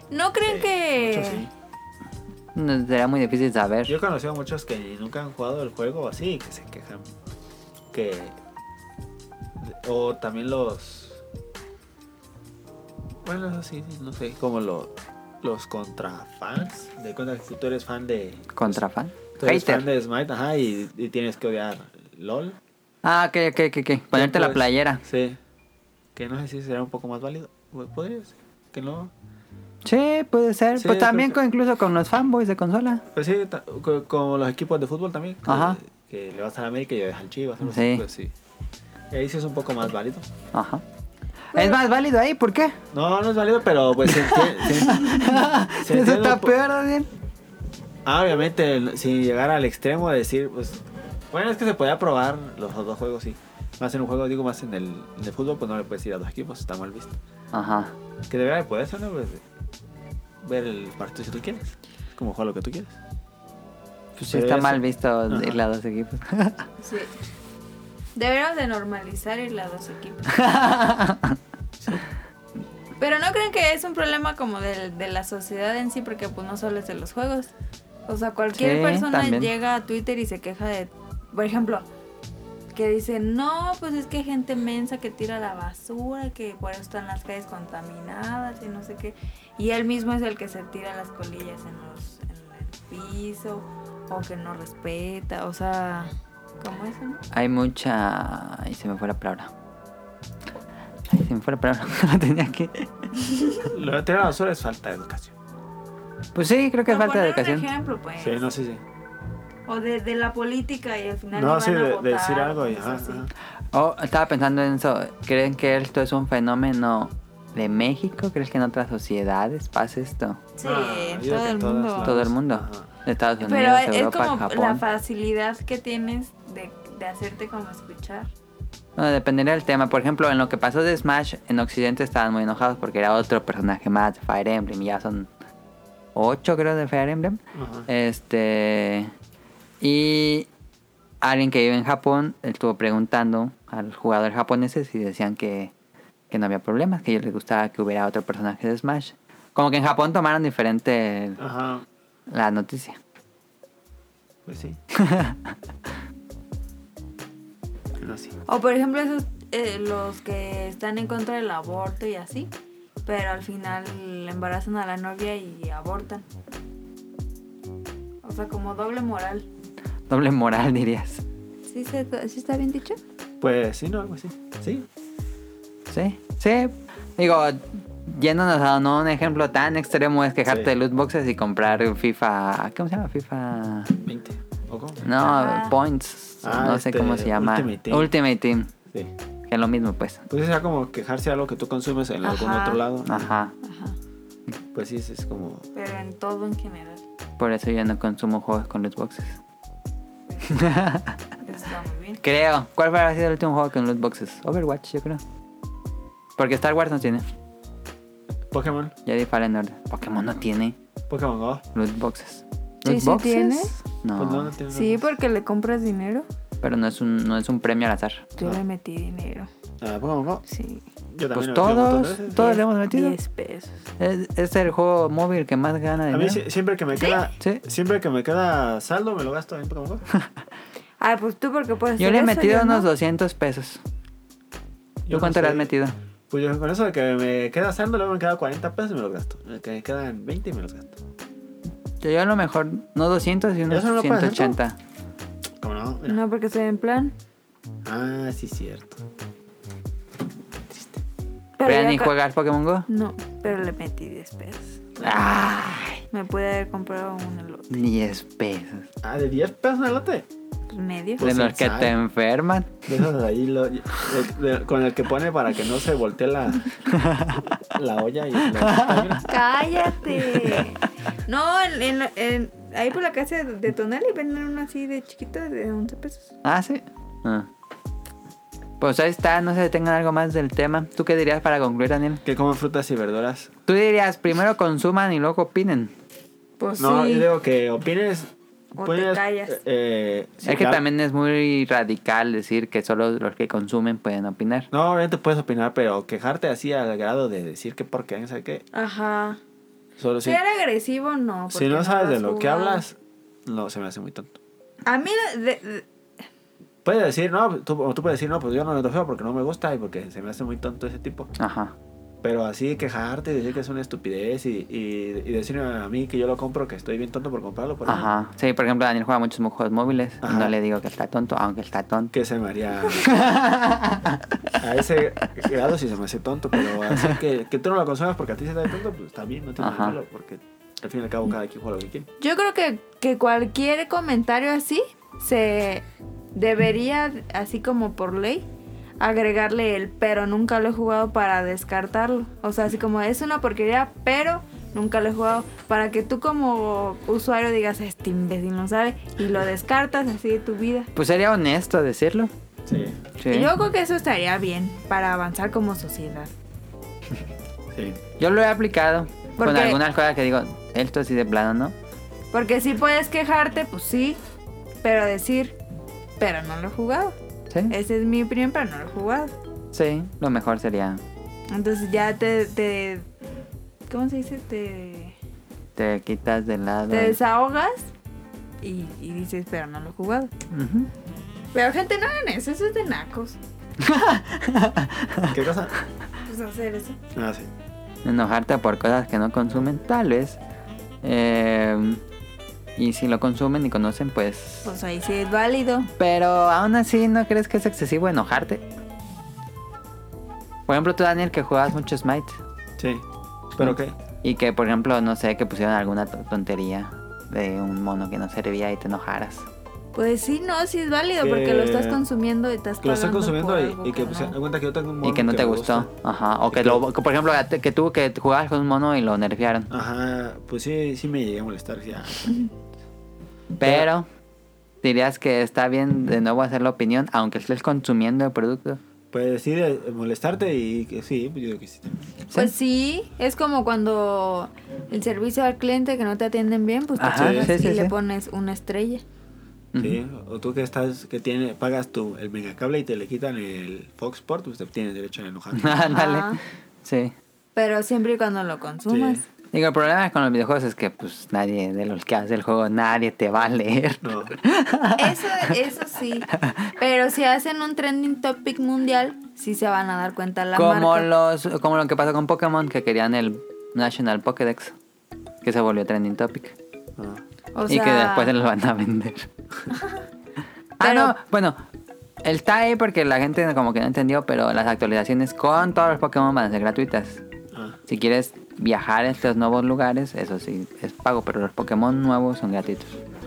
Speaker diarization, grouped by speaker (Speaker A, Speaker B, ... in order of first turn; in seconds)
Speaker A: 0.1-1.4, 41.5-41.8, 66.8-67.1, 68.2-70.3, 73.0-77.5, 78.1-81.9, 82.7-97.2, 106.9-108.4, 109.7-113.3, 120.6-122.1, 123.4-128.3, 158.5-162.5, 163.1-166.2, 168.2-169.5, 171.7-173.0, 185.2-185.7, 192.2-192.8, 193.6-193.9, 195.7-197.0, 200.3-200.6, 201.4-202.2, 212.8-213.7, 214.7-216.2, 218.3-219.5, 220.5-220.8, 222.3-223.8, 226.9-227.2, 231.0-232.9, 246.1-247.1, 251.6-252.1, 252.9-254.8, 256.1-257.8, 260.7-261.2, 269.3-276.3, 286.6-287.3, 288.8-289.6, 298.7-299.4, 300.2-302.8, 304.9-305.8, 332.2-338.4, 339.0-350.9, 353.3-356.3, 359.4-359.8, 362.3-364.2, 364.8-365.6, 366.2-367.1, 367.7-369.4, 371.5-373.1, 373.9-375.1, 376.9-377.9, 378.6-380.3, 381.5-383.4, 386.2-387.0, 394.6-395.9, 409.9-414.4, 432.3-439.0, 445.9-446.4, 447.6-449.2, 454.9-461.1, 467.5-468.3, 469.7-470.0, 470.8-471.1
Speaker B: 0.4-1.5, 3.9-7.1, 7.9-8.4, 9.6-11.2, 13.2-18.8, 19.4-22.6, 24.1-25.4, 26.1-29.1, 30.8-31.4, 33.1-38.3, 39.1-40.3, 42.9-46.5, 48.0-57.2, 58.3-59.4, 60.4-63.0, 64.3-65.6, 103.7-105.3, 108.2-108.8, 111.3-113.3, 120.6-122.9, 137.5-137.9, 151.4-151.8, 154.4-154.8, 158.0-158.3, 173.4-174.9, 184.0-185.1, 186.4-188.1, 190.3-193.3, 194.7-195.7, 208.5-208.9, 211.1-211.7, 214.1-215.1, 219.8-220.4, 221.1-222.6, 226.1-230.0, 235.1-235.7, 236.3-241.0, 243.7-244.6, 245.6-246.2, 247.8-249.0, 250.7-251.0, 259.0-260.2, 261.2-261.9, 262.9-266.7, 267.7-269.3, 282.2-283.5, 286.8-290.8, 294.7-298.6, 300.0-300.4, 301.5-304.4, 306.8-311.3, 312.2-318.1, 320.2-320.6, 322.1-323.1, 324.6-332.1, 352.7-353.0, 357.7-358.0, 385.3-385.7, 387.1-387.5, 402.8-403.0, 403.6-403.9, 411.2-412.0, 412.8-415.9, 416.5-416.8, 419.7-422.3, 423.6-423.9, 429.1-432.0, 437.1-437.5, 439.8-445.9, 448.9-449.2, 454.0-454.4, 467.0-467.2, 477.5-477.8
Speaker C: 2.5-4.0, 18.5-19.8, 23.0-25.0, 29.8-33.0, 35.5-35.8, 37.7-38.0, 40.5-40.8, 41.5-42.8, 44.1-47.1, 57.5-57.9, 64.2-66.7, 70.3-71.4, 78.5-79.5, 97.3-99.5, 101.1-102.9, 106.3-107.7, 113.7-120.4, 122.0-124.8, 129.0-135.3, 136.1-139.1, 139.8-140.5, 141.2-145.7, 146.3-151.4, 152.3-153.0, 154.9-155.5, 170.1-171.2, 175.9-183.9, 185.0-188.7, 189.5-190.2, 193.1-193.5, 197.4-199.4, 200.5-201.2, 202.2-205.2, 206.4-207.2, 209.1-210.7, 211.7-214.5, 216.6-218.3, 221.3-223.2, 224.0-226.4, 232.0-233.8, 235.1-235.9, 242.0-244.8, 251.7-252.9, 255.0-256.0, 257.7-258.9, 261.2-262.8, 266.9-267.5, 268.6-269.2, 276.4-277.5, 278.8-282.2, 283.7-285.9, 290.4-294.7, 311.4-311.7, 317.9-322.1, 323.0-324.5, 329.6-330.0, 350.9-352.3, 353.2-353.5, 358.2-361.7, 369.7-371.0, 375.8-377.2, 380.5-380.9, 383.8-385.4, 388.0-390.4, 391.0-392.0, 392.8-394.7, 396.0-398.6, 400.7-402.4, 403.6-409.5, 415.0-419.7, 423.6-424.1, 424.8-428.8, 437.0-437.9, 439.7-440.0, 445.5-447.1, 449.5-455.4, 456.4-456.7, 460.5-464.7, 465.4-466.5, 467.7-469.3, 470.8-471.6, 472.2-477.2, 477.9-483.0